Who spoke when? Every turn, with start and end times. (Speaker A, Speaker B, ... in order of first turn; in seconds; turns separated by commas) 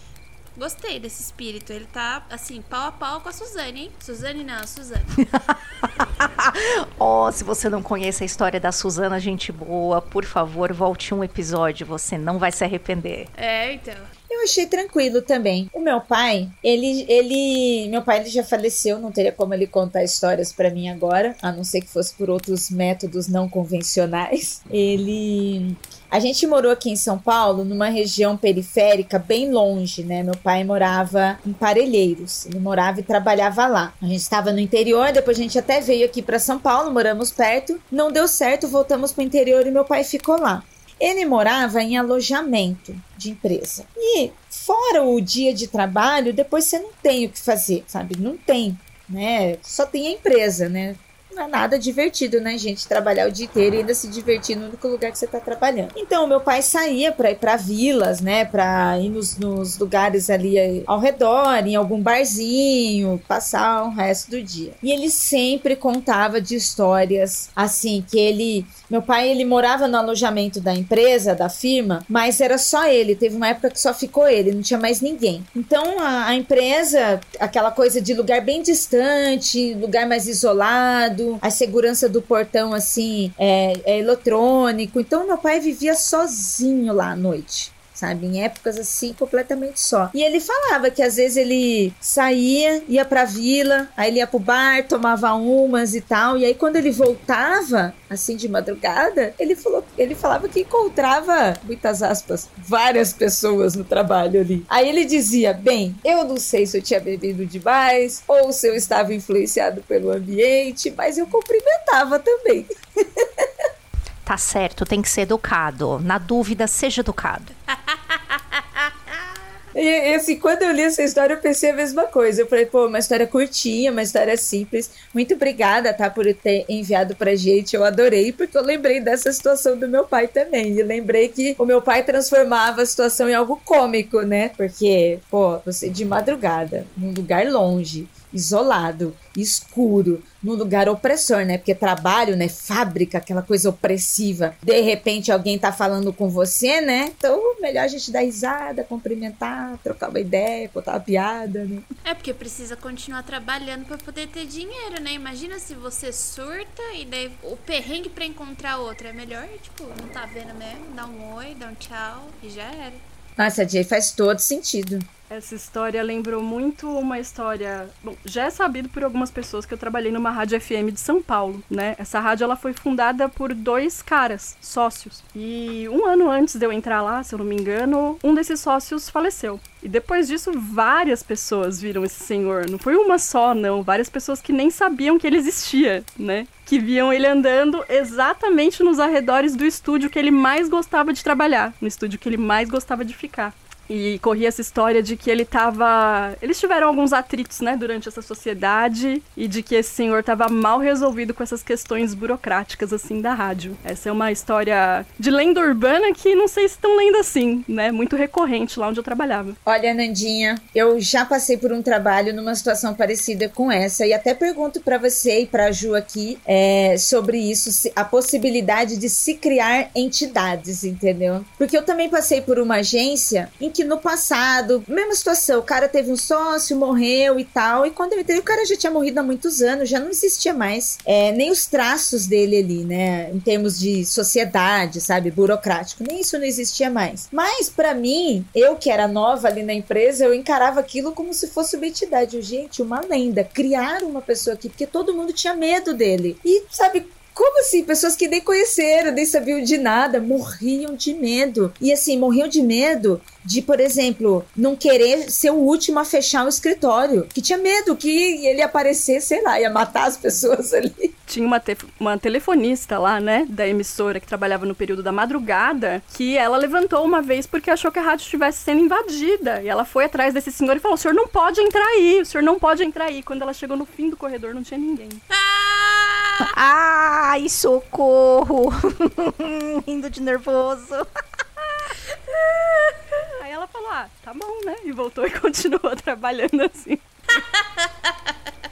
Speaker A: 0.6-5.2, Speaker B: 5.2-13.3, Speaker A: 13.3-14.1, Speaker C: 14.3-113.6, Speaker B: 114.2-117.5, Speaker A: 117.7-119.2, Speaker C: 119.7-151.8, Speaker A: 152.1-163.0, Speaker C: 163.4-165.1, Speaker D: 165.3-209.6, Speaker C: 209.7-261.1, Speaker D: 261.3-275.2, Speaker A: 275.3-276.5, Speaker B: 276.4-281.1, Speaker D: 283.4-287.0, Speaker A: 287.3-288.5